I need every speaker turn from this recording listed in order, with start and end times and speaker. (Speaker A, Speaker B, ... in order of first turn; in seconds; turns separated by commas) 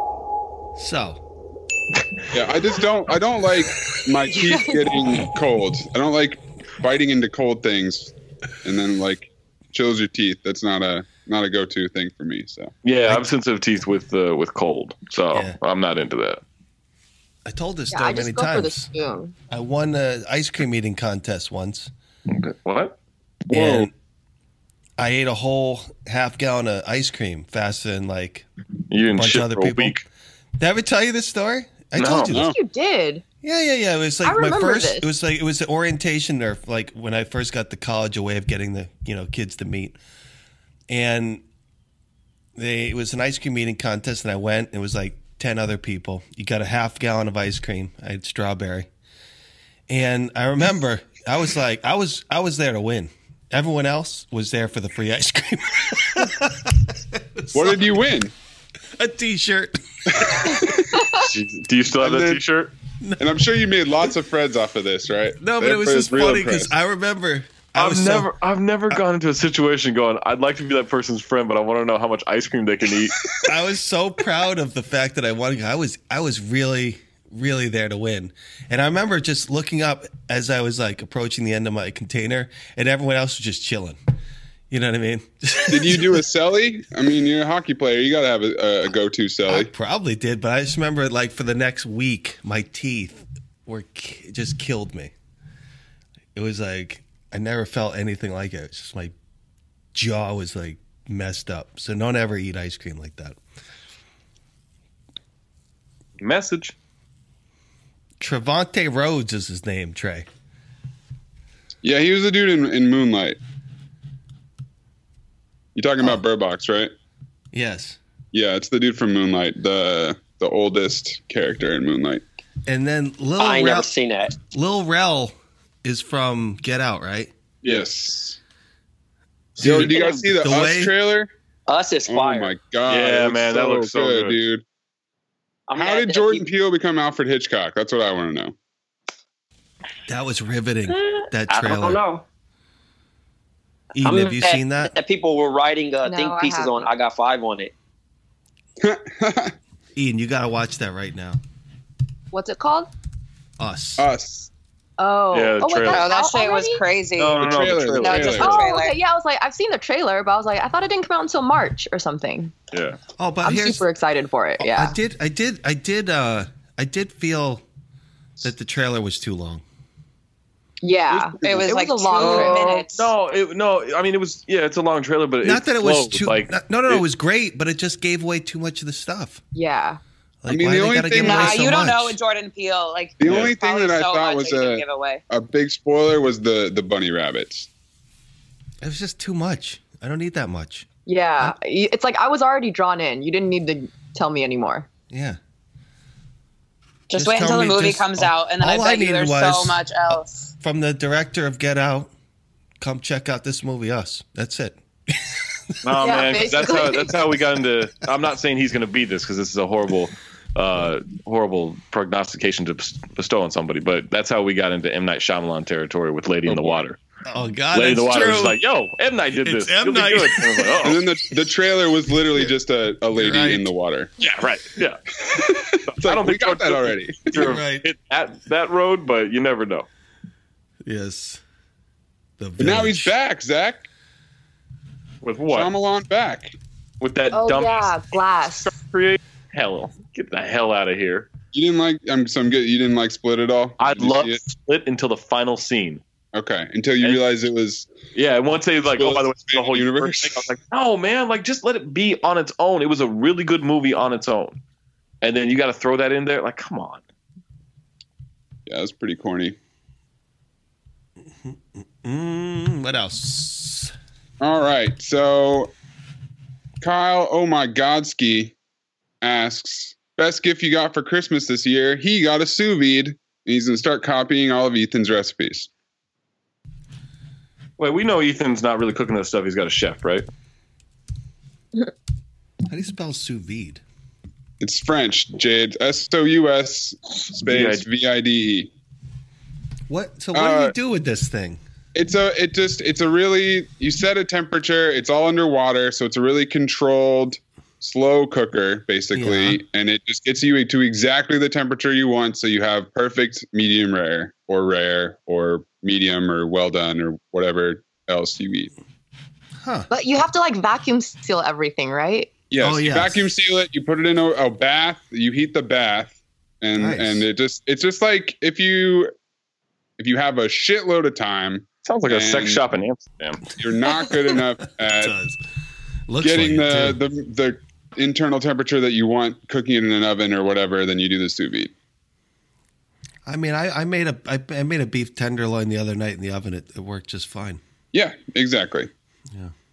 Speaker A: 0.8-1.2, Speaker B: 2.3-12.7, Speaker C: 4.4-4.9, Speaker D: 12.8-16.4, Speaker A: 17.4-18.9, Speaker C: 17.9-19.3, Speaker A: 19.5-21.9, Speaker D: 22.3-23.0, Speaker A: 23.5-23.9, Speaker B: 23.5-23.9, Speaker A: 25.0-28.4, Speaker D: 28.9-30.0, Speaker A: 29.1-30.0, Speaker A: 30.6-32.5, Speaker D: 31.9-32.3, Speaker B: 32.1-32.5, Speaker C: 32.3-33.2, Speaker A: 33.4-40.0, Speaker C: 34.2-35.0, Speaker A: 40.9-41.4, Speaker A: 42.5-48.9, Speaker A: 49.9-57.8, Speaker B: 57.5-58.3, Speaker A: 59.0-60.5, Speaker B: 60.1-61.0, Speaker D: 61.2-62.7, Speaker B: 62.0-62.4, Speaker A: 63.0-63.3, Speaker B: 63.2-66.7, Speaker A: 65.4-68.3, Speaker D: 67.8-73.2, Speaker A: 73.5-84.0, Speaker A: 84.7-86.2, Speaker B: 85.7-89.7, Speaker A: 89.5-95.1, Speaker A: 96.3-99.1, Speaker A: 99.9-103.4, Speaker D: 106.2-106.7, Speaker A: 108.2-110.3, Speaker B: 111.8-113.4, Speaker B: 115.7-116.9, Speaker A: 117.5-118.0, Speaker B: 118.3-122.2, Speaker A: 122.7-127.3, Speaker E: 123.4-124.3, Speaker D: 127.6-127.9, Speaker B: 127.6-128.4, Speaker B: 129.6-131.3, Speaker A: 129.6-130.9, Speaker E: 129.7-130.2, Speaker E: 131.7-132.6, Speaker B: 132.1-134.6, Speaker D: 132.8-134.4, Speaker E: 135.7-136.5, Speaker B: 135.7-138.5, Speaker A: 140.1-142.0, Speaker E: 141.1-142.2, Speaker A: 143.9-144.9, Speaker E: 144.0-147.7, Speaker C: 146.0-146.9, Speaker B: 148.8-149.5, Speaker A: 149.9-151.4, Speaker C: 152.3-152.9, Speaker A: 153.6-154.0, Speaker B: 154.0-154.5, Speaker C: 155.0-156.8, Speaker D: 155.3-156.1, Speaker F: 155.9-158.9, Speaker D: 157.2-158.5, Speaker B: 157.4-158.6, Speaker C: 158.1-162.5, Speaker A: 163.2-163.8, Speaker C: 163.4-164.9, Speaker A: 164.6-167.6, Speaker A: 168.4-169.6, Speaker C: 170.8-172.8, Speaker B: 171.2-171.7, Speaker F: 171.4-173.1, Speaker D: 172.2-177.0, Speaker A: 175.4-179.4, Speaker C: 179.5-180.0, Speaker A: 180.4-182.2, Speaker B: 180.5-181.6, Speaker F: 181.1-185.2, Speaker B: 183.2-187.7, Speaker D: 183.2-183.5, Speaker A: 188.8-190.9, Speaker C: 191.1-194.9, Speaker A: 195.1-195.4, Speaker F: 197.1-200.5, Speaker A: 197.1-202.1, Speaker A: 202.8-205.6, Speaker D: 205.8-217.0, Speaker C: 206.0-207.2, Speaker B: 216.4-216.8, Speaker A: 217.3-218.6, Speaker D: 217.7-221.0, Speaker A: 219.3-220.9, Speaker B: 220.8-224.1, Speaker A: 223.1-223.7, Speaker D: 224.2-225.0, Speaker B: 225.2-227.4, Speaker D: 225.9-229.9, Speaker A: 227.3-227.9, Speaker A: 230.8-231.4, Speaker A: 232.4-233.1, Speaker B: 232.6-233.9, Speaker D: 235.2-235.7, Speaker B: 235.5-236.6, Speaker D: 237.0-238.0, Speaker C: 237.3-238.7, Speaker D: 238.5-241.3, Speaker B: 241.5-244.4, Speaker D: 243.8-246.0, Speaker B: 246.3-247.9, Speaker D: 248.1-254.6, Speaker B: 248.9-250.5, Speaker D: 255.2-257.0, Speaker B: 258.7-259.6, Speaker A: 261.4-263.9, Speaker B: 264.4-265.7, Speaker B: 266.8-268.5, Speaker B: 269.2-275.7, Speaker D: 277.8-280.2, Speaker A: 282.7-283.8, Speaker B: 284.6-288.7, Speaker D: 287.3-287.8, Speaker A: 289.9-291.6, Speaker B: 290.3-290.7, Speaker B: 291.9-308.7, Speaker A: 299.1-299.6, Speaker A: 309.6-309.9, Speaker C: 309.9-312.3, Speaker B: 312.5-319.1, Speaker A: 312.6-313.3, Speaker A: 316.7-317.2, Speaker B: 320.0-322.6, Speaker D: 321.8-323.4, Speaker B: 323.6-325.1, Speaker A: 324.9-325.4, Speaker A: 326.1-327.0, Speaker B: 326.2-331.7, Speaker A: 333.2-337.6, Speaker B: 337.9-338.9